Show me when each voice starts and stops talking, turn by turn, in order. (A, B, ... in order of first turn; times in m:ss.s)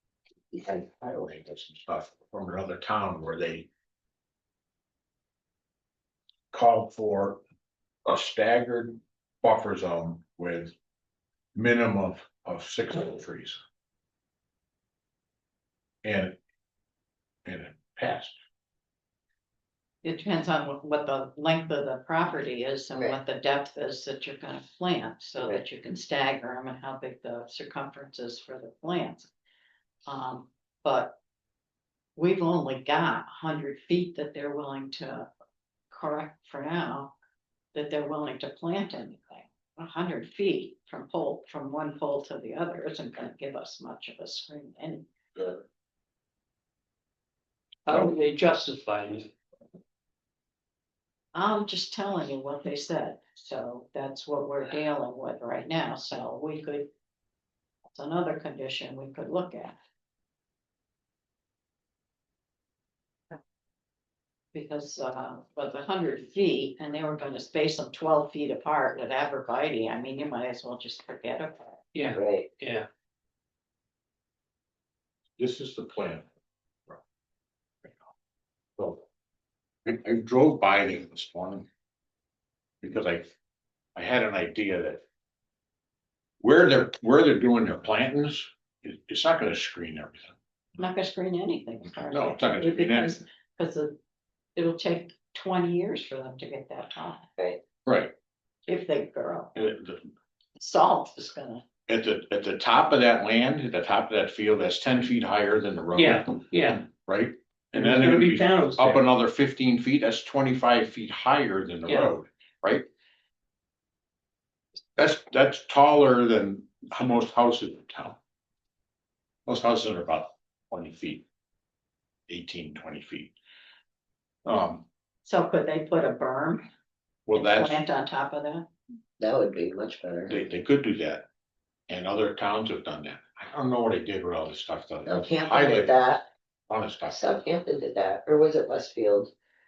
0:00.6-0:03.7 A
0:06.5-0:07.4 A
0:08.0-0:10.7 A
0:11.6-0:13.6 A
0:16.0-0:16.4 A
0:17.4-0:18.4 A
0:20.0-0:29.3 B
0:22.9-0:23.2 C
0:30.1-0:31.2 B
0:32.2-0:35.3 B
0:35.9-0:37.2 B
0:37.7-0:45.6 B
0:47.9-0:49.3 D
0:51.3-0:56.9 B
0:57.9-0:59.8 B
1:04.5-1:11.8 B
1:11.9-1:12.9 D
1:12.1-1:12.5 C
1:15.4-1:16.3 A
1:17.8-1:18.1 A
1:18.8-1:19.0 A
1:19.9-1:21.7 A
1:22.8-1:23.3 A
1:24.0-1:25.0 A
1:26.4-1:30.4 A
1:30.8-1:34.0 B
1:32.0-1:33.2 A
1:34.6-1:37.3 B
1:37.9-1:38.1 A
1:38.7-1:39.5 B
1:39.6-1:40.1 A
1:40.6-1:41.6 B
1:41.9-1:52.9 A
1:45.9-1:46.9 D
1:47.7-1:49.1 D
1:51.9-1:52.1 D
1:55.0-1:58.2 A
1:59.5-2:01.2 A
2:02.3-2:03.3 A
2:04.4-2:04.8 A
2:05.2-2:06.7 B
2:07.3-2:07.8 A
2:07.3-2:08.7 B
2:09.2-2:10.5 C
2:10.3-2:11.3 A
2:11.9-2:16.0 A
2:15.1-2:16.3 C
2:16.7-2:17.3 A
2:17.1-2:19.3 C